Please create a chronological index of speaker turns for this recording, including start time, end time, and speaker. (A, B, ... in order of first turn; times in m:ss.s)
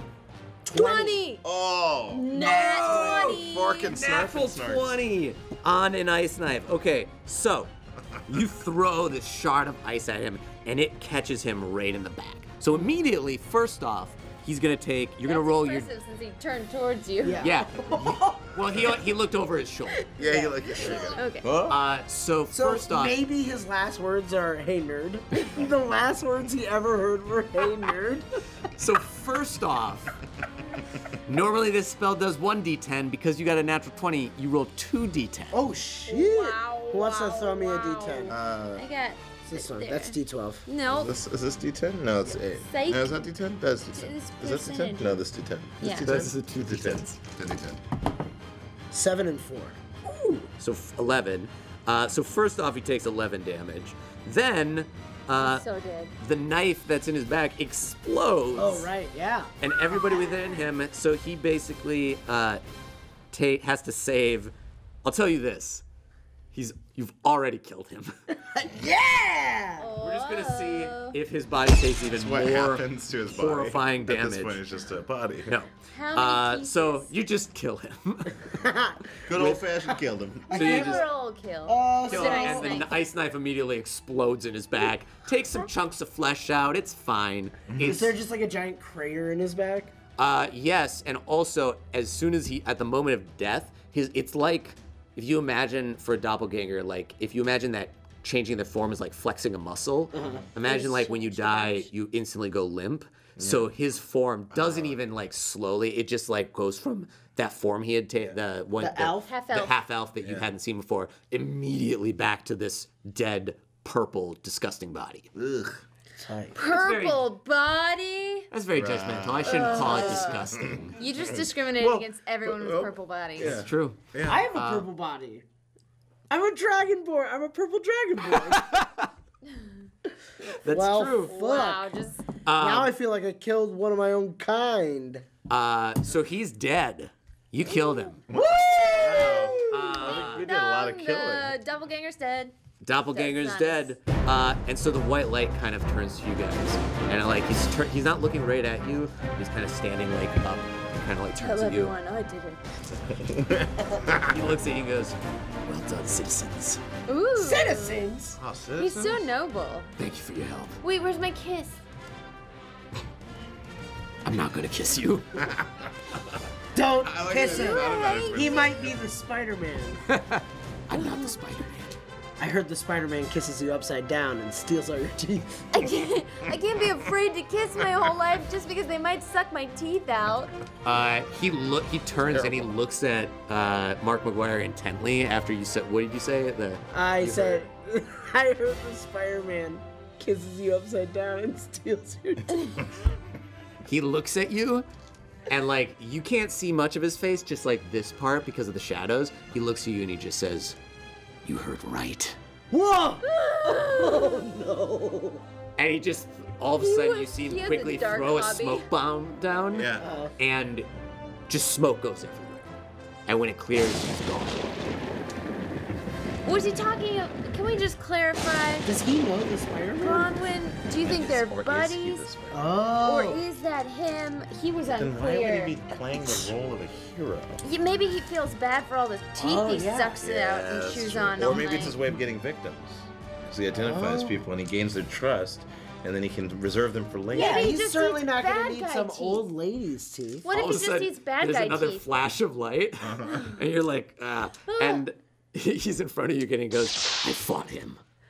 0:00.6-0:01.2 A
0:00.7-0:01.4 B
0:01.4-0:02.3 C
0:02.1-0:03.9 B
0:02.3-0:03.3 A
0:02.3-0:07.7 D
0:03.2-0:05.0 C
0:08.3-0:15.9 D
0:15.2-0:17.5 B
0:17.2-0:18.5 A
0:17.4-0:20.1 D
0:20.2-0:21.8 C
0:20.2-0:21.2 A
0:20.6-0:21.5 B
0:21.7-0:23.2 D
0:22.5-0:28.3 A
0:28.7-0:30.2 D
0:31.3-0:35.6 D
0:35.5-0:38.4 A
0:36.1-0:41.1 B
0:38.3-0:38.8 C
0:39.4-0:40.6 A
0:40.9-0:47.8 C
0:42.5-0:43.2 B
0:43.9-0:45.2 B
0:45.8-0:46.1 B
0:45.8-0:47.2 D
0:48.9-0:49.8 A
0:50.0-0:55.6 D
0:55.4-0:56.2 B
0:56.2-0:58.9 D
0:58.6-0:59.5 A
0:59.6-1:02.6 D
1:03.3-1:04.5 D
1:05.0-1:05.8 D
1:06.5-1:08.1 D
1:08.4-1:09.9 A
1:09.8-1:11.2 B
1:10.0-1:14.6 D
1:12.1-1:15.5 C
1:15.5-1:18.4 D
1:15.9-1:17.1 B
1:18.4-1:19.6 A
1:19.2-1:20.8 C
1:20.5-1:21.1 A
1:20.5-1:21.1 D
1:20.5-1:23.0 B
1:21.6-1:22.9 A
1:22.1-1:28.1 D
1:27.7-1:28.0 C
1:27.8-1:29.9 A
1:30.2-1:55.3 D
1:40.1-1:40.4 A
1:40.6-1:41.9 B
1:43.4-1:43.7 C
1:44.5-1:45.0 C
1:48.8-1:49.3 A
1:49.2-1:49.8 B
1:50.2-1:50.5 C
1:55.4-1:55.8 C
1:56.2-1:56.6 A
1:56.6-1:58.5 B
1:56.6-1:57.2 D
1:58.5-2:00.9 D
1:58.7-2:04.4 C
1:59.4-2:03.5 B
1:59.8-2:00.2 A
2:03.4-2:04.9 D
2:04.2-2:05.4 A
2:06.3-2:08.8 A
2:08.2-2:09.1 D
2:10.5-2:11.4 D
2:10.6-2:11.9 A
2:11.2-2:12.2 B
2:12.4-2:12.9 D
2:12.6-2:15.2 A
2:15.5-2:18.2 D
2:17.7-2:18.1 B
2:18.3-2:21.6 C
2:18.3-2:20.0 A
2:18.9-2:19.4 B
2:19.7-2:20.5 D
2:20.1-2:22.5 B
2:22.8-2:31.9 D
2:23.1-2:23.9 B
2:31.4-2:32.6 B
2:33.1-2:34.4 C
2:34.2-2:36.8 D
2:37.1-2:38.1 B
2:37.4-2:38.4 A
2:38.4-2:39.2 C
2:38.8-2:39.9 B
2:40.0-2:40.8 D
2:40.8-2:41.8 B
2:44.2-2:45.4 D
2:45.4-2:45.9 C
2:46.7-2:50.0 A
2:47.0-2:49.1 C
2:47.4-2:48.6 B
2:50.1-2:52.0 D
2:52.4-2:55.7 A
2:55.7-3:00.5 B
3:00.8-3:07.7 D
3:02.3-3:02.7 C
3:06.9-3:12.8 A
3:13.8-3:14.9 D
3:15.5-3:20.8 D
3:21.4-3:22.4 D
3:22.7-3:25.4 A
3:23.2-3:24.4 B
3:25.8-3:30.9 D
3:26.8-3:28.9 B
3:29.7-3:30.1 C
3:30.0-3:30.3 A
3:31.5-3:32.7 D
3:33.3-3:34.8 D
3:36.4-3:38.9 B
3:38.8-3:40.3 A
3:40.0-3:42.3 B
3:41.0-3:42.7 C
3:42.5-3:43.4 A
3:43.0-3:45.8 B
3:44.9-3:47.6 C
3:47.6-3:52.0 B
3:49.4-3:50.2 A
3:50.2-3:57.7 C
3:53.7-3:54.4 A
3:57.3-4:00.4 A
3:57.3-3:59.4 B
4:00.4-4:02.1 B
4:00.5-4:08.0 D
4:03.0-4:03.5 C
4:04.7-4:05.0 B